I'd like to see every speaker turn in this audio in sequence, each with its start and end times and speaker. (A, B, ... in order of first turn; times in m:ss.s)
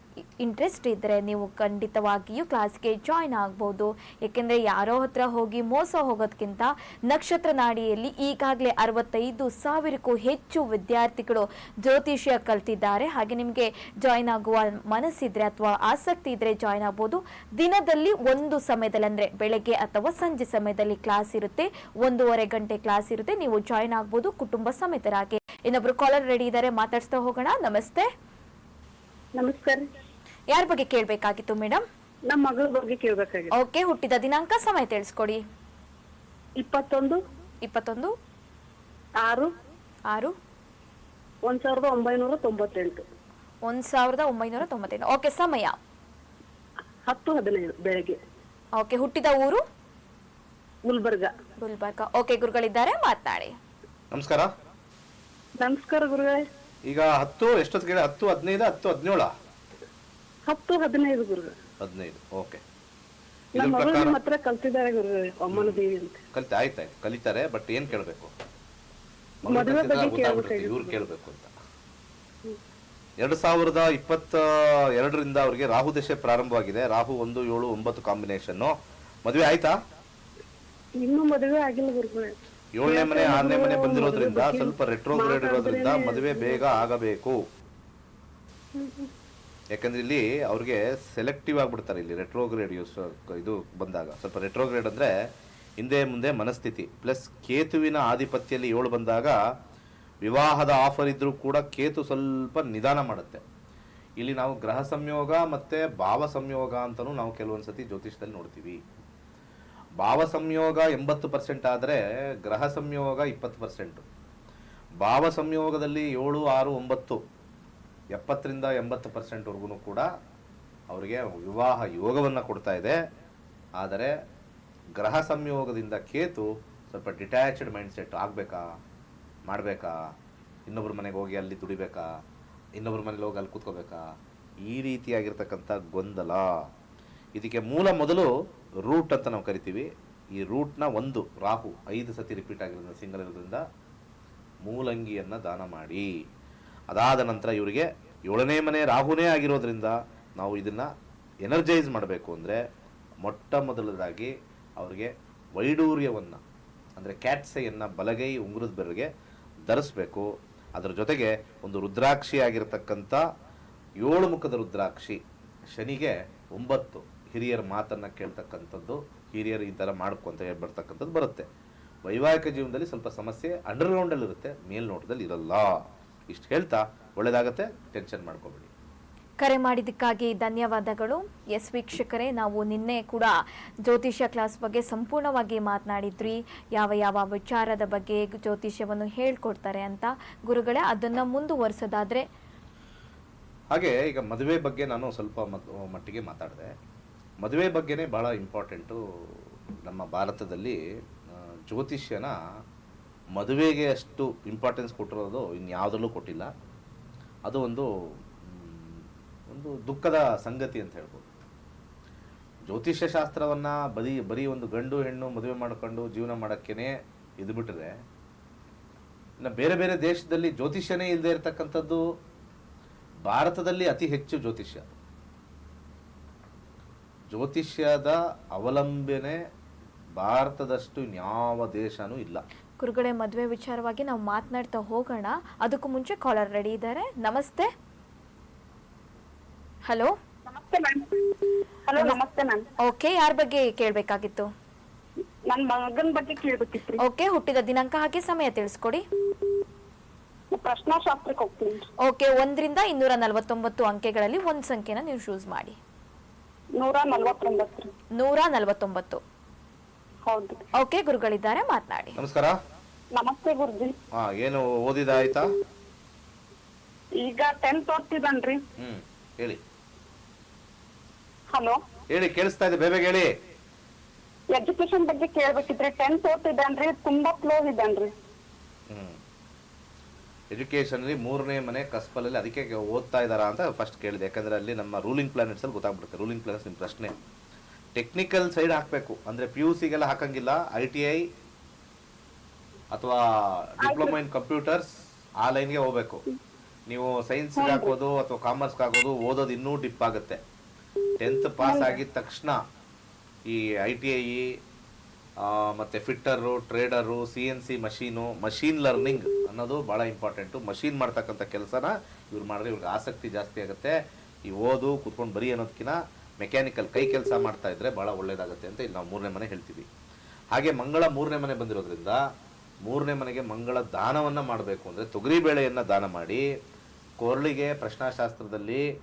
0:00.4-0:28.1 A
0:29.4-0:29.9 B
0:30.5-0:31.8 A
0:32.3-0:33.5 B
0:33.5-0:35.4 A
0:36.6-0:37.2 B
0:37.6-0:38.1 A
0:39.2-0:39.5 B
0:41.4-0:43.0 B
0:43.6-0:45.8 A
0:47.0-0:48.2 B
0:48.8-0:49.6 A
0:50.8-0:51.3 B
0:51.6-0:53.5 A
0:54.1-0:54.5 C
0:55.6-0:56.4 B
0:56.8-0:59.3 C
1:00.5-1:01.5 B
1:01.8-1:02.6 C
1:03.5-1:06.2 B
1:03.6-1:04.2 C
1:05.5-1:08.3 C
1:09.4-1:11.5 C
1:09.4-1:11.0 B
1:13.2-1:19.8 C
1:21.0-1:26.6 B
1:22.8-1:27.4 C
1:28.8-1:29.1 B
1:29.7-1:35.1 C
1:35.8-1:39.4 C
1:40.2-1:43.4 C
1:44.2-1:48.8 C
1:50.0-1:54.0 C
1:55.0-1:57.2 C
1:58.1-2:00.1 C
2:00.9-2:03.0 C
2:03.8-2:04.1 C
2:05.0-2:08.6 C
2:09.5-2:10.0 C
2:10.7-2:12.1 C
2:12.8-2:14.1 C
2:14.6-2:16.5 C
2:17.4-2:18.3 C
2:18.8-2:23.6 C
2:24.6-2:26.1 C
2:26.9-2:30.9 C
2:31.4-2:32.6 C
2:33.2-2:36.4 C
2:37.0-2:39.1 C
2:39.6-2:43.2 C
2:44.0-2:45.2 C
2:45.7-2:51.4 C
2:52.0-2:55.6 C
2:56.3-2:58.7 C
2:59.4-3:03.3 A
3:03.8-3:12.2 A
3:13.7-3:16.7 C
3:17.4-3:20.8 C
3:21.3-3:22.3 C
3:23.3-3:26.5 C
3:27.4-3:27.9 C
3:28.4-3:31.3 C
3:32.6-3:37.9 C
3:39.4-3:42.0 C
3:43.2-3:44.9 C
3:47.3-3:49.4 C
3:50.2-3:52.4 C
3:52.8-3:57.7 A
3:59.9-4:00.1 A
4:00.5-4:02.6 B
4:02.8-4:04.5 A
4:05.5-4:07.0 B
4:07.0-4:09.0 A
4:10.5-4:11.8 B
4:12.0-4:15.8 A
4:16.8-4:17.9 B
4:18.2-4:19.2 A
4:20.2-4:20.6 B
4:20.8-4:22.2 A
4:22.2-4:22.5 C
4:23.1-4:24.0 B
4:24.1-4:25.5 C
4:27.2-4:28.6 B
4:28.8-4:29.6 C
4:31.5-4:31.8 B
4:32.1-4:33.3 C
4:34.5-4:38.1 B
4:38.9-4:39.2 C
4:40.5-4:47.1 C
4:47.9-4:51.2 C
4:52.9-4:54.9 C
4:53.8-4:54.1 B
4:55.4-4:56.2 C
4:56.9-5:00.4 C
4:57.6-4:57.9 B
5:01.2-5:02.6 C
5:01.6-5:02.0 B
5:03.5-5:04.4 C
5:05.4-5:13.9 C
5:14.4-5:19.8 C
5:20.5-5:22.2 C
5:22.8-5:26.4 C
5:27.2-5:28.8 C